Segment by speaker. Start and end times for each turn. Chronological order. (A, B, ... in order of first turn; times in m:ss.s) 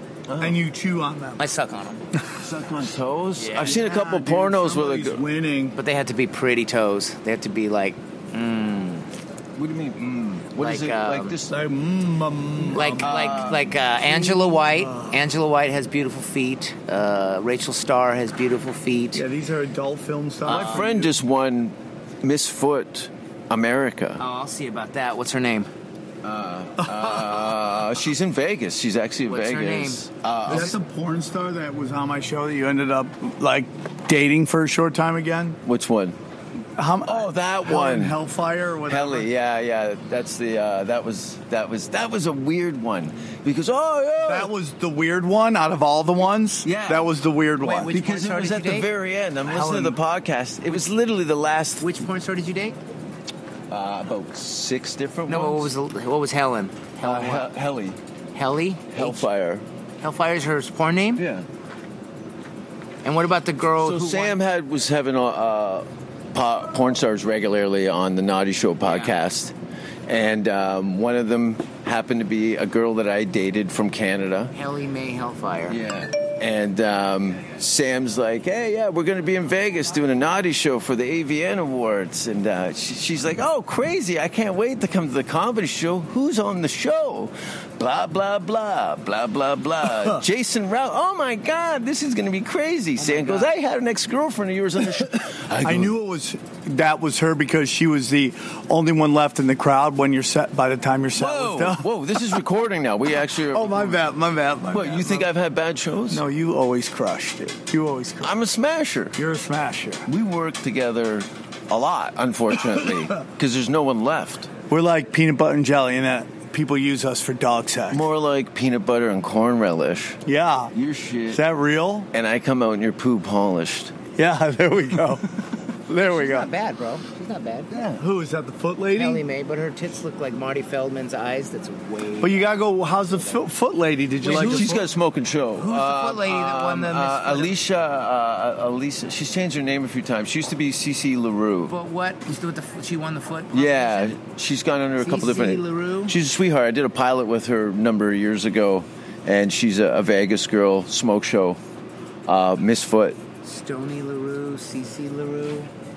0:00.3-0:00.6 A
0:00.4-0:01.4 B
0:01.4-0:02.0 C
0:02.4-0:05.2 A
0:03.4-0:03.8 C
0:03.6-0:05.8 B
0:05.8-0:09.1 C
0:09.6-0:11.6 A
0:10.6-0:11.3 C
0:11.5-0:13.4 B
0:12.7-0:19.2 C
0:13.0-0:13.7 A
0:14.0-0:15.2 B
0:19.2-0:21.1 B
0:20.5-0:20.8 C
0:20.5-0:24.2 A
0:24.2-0:25.7 C
0:26.2-0:30.8 A
0:26.8-0:27.2 B
0:29.3-0:30.8 C
0:30.5-0:35.6 B
0:35.6-0:36.2 A
0:36.8-0:39.3 B
0:37.0-0:38.2 A
0:38.9-0:44.5 A
0:44.2-0:47.9 B
0:46.6-0:47.1 A
0:47.6-0:48.9 C
0:47.9-0:52.0 A
0:49.5-0:50.0 B
0:51.8-0:52.8 C
0:53.7-0:55.7 A
0:55.3-0:57.5 C
0:57.0-0:58.0 A
0:58.3-0:59.3 C
0:58.9-0:59.6 A
1:00.0-1:01.3 C
1:01.2-1:01.5 A
1:03.0-1:04.4 C
1:03.8-1:09.6 A
1:08.8-1:09.2 C
1:10.1-1:14.6 A
1:14.5-1:15.8 C
1:15.7-1:35.9 A
1:33.0-1:33.5 C
1:35.6-1:41.8 B
1:41.2-1:44.0 A
1:43.5-1:45.3 B
1:44.7-1:46.2 A
1:46.1-1:48.4 B
1:48.2-1:49.2 A
1:49.2-1:50.1 B
1:50.1-1:54.5 A
1:54.7-1:58.1 B
1:57.9-2:00.2 A
2:00.3-2:00.7 B
2:00.7-2:01.4 A
2:01.3-2:02.1 B
2:02.1-2:03.9 A
2:04.2-2:06.5 B
2:06.1-2:07.8 C
2:07.7-2:08.0 A
2:08.0-2:09.2 B
2:08.9-2:12.4 C
2:12.2-2:14.8 B
2:14.2-2:14.8 C
2:14.2-2:21.7 A
2:15.6-2:17.6 C
2:21.7-2:24.2 C
2:23.5-2:31.6 A
2:25.0-2:26.2 C
2:32.3-2:33.2 A
2:33.4-2:35.7 C